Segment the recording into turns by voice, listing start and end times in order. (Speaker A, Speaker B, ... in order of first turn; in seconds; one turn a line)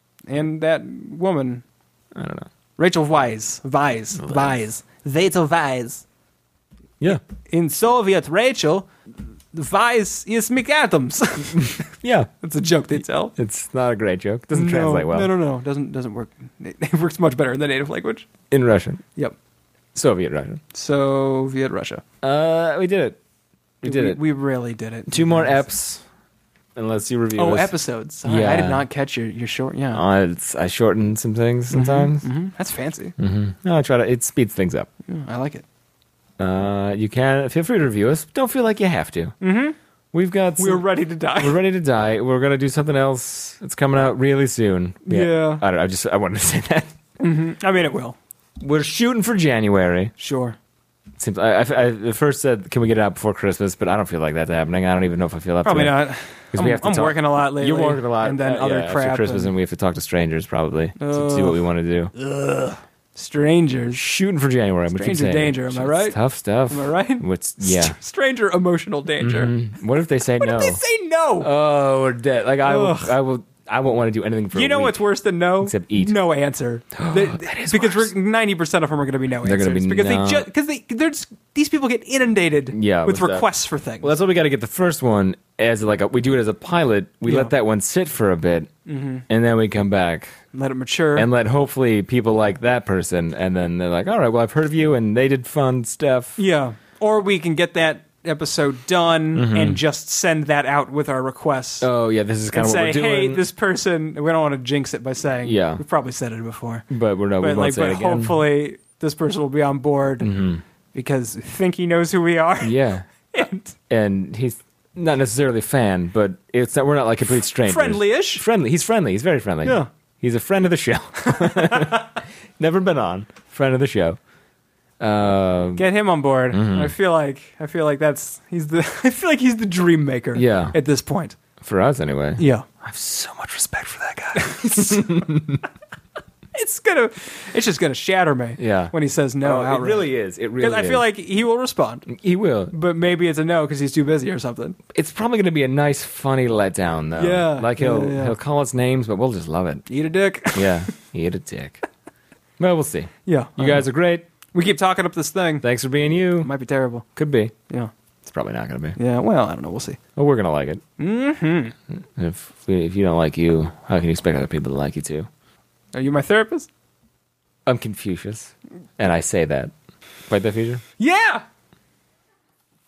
Speaker A: 0.3-1.6
Speaker B: 2.1-2.5
Speaker A: 2.8-6.0
Speaker B: 4.2-4.5
Speaker A: 7.5-8.9
Speaker A: 9.5-11.9
Speaker B: 11.6-12.3
Speaker A: 12.4-13.3
Speaker B: 13.4-15.3
Speaker A: 14.5-18.3
Speaker B: 18.5-19.0
Speaker B: 19.9-20.6
Speaker A: 20.7-22.0
Speaker B: 22.2-23.2
Speaker B: 23.8-24.2
Speaker A: 23.8-25.6
Speaker B: 25.1-26.0
Speaker B: 26.7-27.7
Speaker A: 27.3-30.0
Speaker B: 28.2-28.8
Speaker B: 29.9-32.3
Speaker A: 31.7-33.1
Speaker B: 33.2-34.9
Speaker A: 35.1-35.6
Speaker B: 36.4-39.3
Speaker A: 39.4-39.8
Speaker B: 40.1-46.9
Speaker A: 40.6-41.6
Speaker A: 45.0-45.6
Speaker A: 47.2-48.2
Speaker B: 48.6-50.1
Speaker A: 50.2-50.6
Speaker B: 51.2-62.1
Speaker A: 55.6-59.5
Speaker A: 61.0-61.6
Speaker A: 62.1-64.0
Speaker B: 63.9-68.0
Speaker A: 64.9-66.2
Speaker A: 66.7-69.5
Speaker B: 69.2-70.8
Speaker A: 70.4-71.5
Speaker B: 71.4-75.0
Speaker A: 72.6-73.1
Speaker A: 74.5-84.1
Speaker B: 75.6-76.1
Speaker B: 76.9-78.1
Speaker B: 79.4-80.5
Speaker B: 82.7-83.5
Speaker B: 84.0-88.7
Speaker A: 87.2-87.5
Speaker A: 88.8-89.2
Speaker B: 89.3-90.3
Speaker A: 90.5-91.3
Speaker B: 91.1-96.4
Speaker A: 96.4-101.9
Speaker B: 99.3-99.8
Speaker B: 101.8-103.4
Speaker A: 102.5-106.9
Speaker B: 105.4-105.8
Speaker B: 106.9-108.4
Speaker A: 107.4-110.3
Speaker B: 110.2-110.6
Speaker A: 110.9-112.8
Speaker B: 112.6-113.1
Speaker A: 113.3-113.7
Speaker B: 113.9-124.2
Speaker A: 117.6-118.4
Speaker A: 121.2-122.0
Speaker B: 125.0-125.8
Speaker A: 125.8-131.4
Speaker B: 126.5-126.9
Speaker B: 130.3-130.8
Speaker B: 131.6-135.6
Speaker A: 132.4-132.7
Speaker A: 134.3-135.0
Speaker A: 136.5-140.1
Speaker B: 138.6-141.1
Speaker A: 140.6-142.1
Speaker B: 142.1-142.7
Speaker A: 142.7-144.8
Speaker B: 144.9-149.8
Speaker A: 147.2-148.3
Speaker A: 149.9-150.9
Speaker B: 150.5-151.8
Speaker B: 152.6-154.2
Speaker A: 153.2-153.8
Speaker A: 154.5-155.6
Speaker B: 155.6-156.5
Speaker A: 156.4-157.1
Speaker B: 157.2-157.5
Speaker B: 158.2-159.0
Speaker A: 159.0-160.0
Speaker B: 160.2-160.8
Speaker A: 161.0-161.7
Speaker B: 161.9-165.3
Speaker A: 165.9-166.7
Speaker B: 167.7-169.7
Speaker B: 170.3-170.8
Speaker A: 171.0-171.4